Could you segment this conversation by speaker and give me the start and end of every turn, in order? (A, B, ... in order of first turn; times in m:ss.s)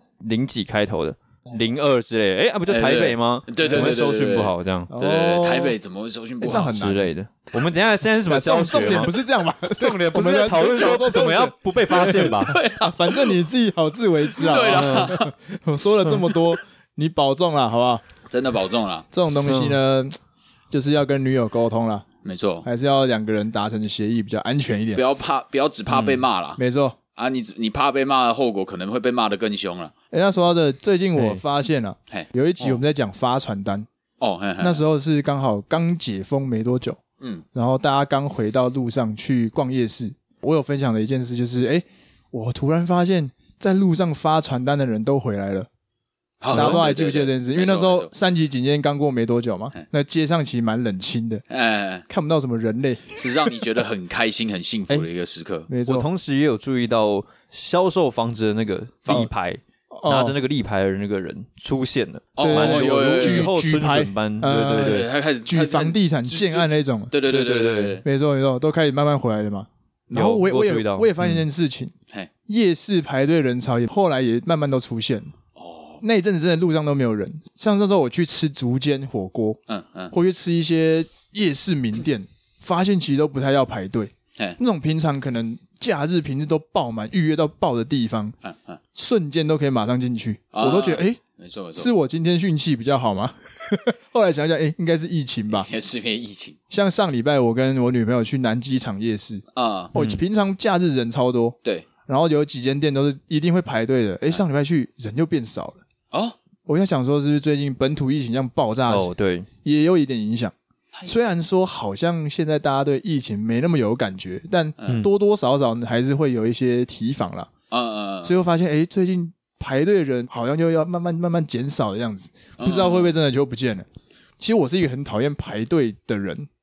0:00.2-0:04.9 A
0:02.7-0:06.8 B
0:03.6-0:04.0 C
0:04.9-0:05.8 C
0:06.4-0:07.1 C
0:06.5-0:09.2 A
0:08.3-0:18.0 C
0:09.8-0:12.6 A
0:12.0-0:13.3 B
0:14.4-0:15.3 B
0:14.8-0:15.1 A
0:18.3-0:19.1 B
0:19.1-0:20.2 C
0:19.5-0:19.8 A
0:20.7-0:22.1 C
0:22.2-0:22.7 B
0:22.6-0:25.0 C
0:25.0-0:26.6 B
0:25.9-0:26.2 A
0:26.6-0:27.0 C
0:27.2-0:29.9 B
0:30.1-0:33.9 C
0:31.2-0:31.4 A
0:32.1-0:32.8 B
0:34.2-0:34.8 B
0:34.6-0:37.0 C
0:37.5-0:45.7 C
0:46.4-0:48.1 B
0:46.5-0:46.8 A
0:46.5-0:51.4 C
0:51.5-0:52.1 B
0:52.1-0:53.2 C
0:53.2-0:55.7 B
0:55.7-0:56.1 C
0:55.8-1:05.1 A
0:59.9-1:00.4 C
1:02.4-1:03.5 B
1:02.4-1:07.1 C
1:04.8-1:08.0 B
1:07.2-1:08.0 A
1:08.0-1:11.9 C
1:10.1-1:11.4 A
1:12.5-1:15.3 C
1:15.6-1:16.0 B
1:16.0-1:19.6 C
1:19.7-1:20.1 B
1:20.1-1:28.4 C
1:28.4-1:28.8 B
1:29.0-1:31.2 C
1:30.5-1:31.9 B
1:31.8-1:35.7 C
1:35.5-1:36.6 B
1:36.7-1:45.8 C
1:39.6-1:39.9 B
1:40.0-1:40.2 A
1:46.1-1:46.4 B
1:46.7-1:49.1 C
1:48.9-1:49.5 A
1:49.6-1:50.5 C
1:51.1-1:57.5 C
1:54.8-1:55.1 B
1:57.7-1:58.4 B
1:58.2-2:03.9 C
2:02.6-2:03.1 B
2:04.4-2:06.5 C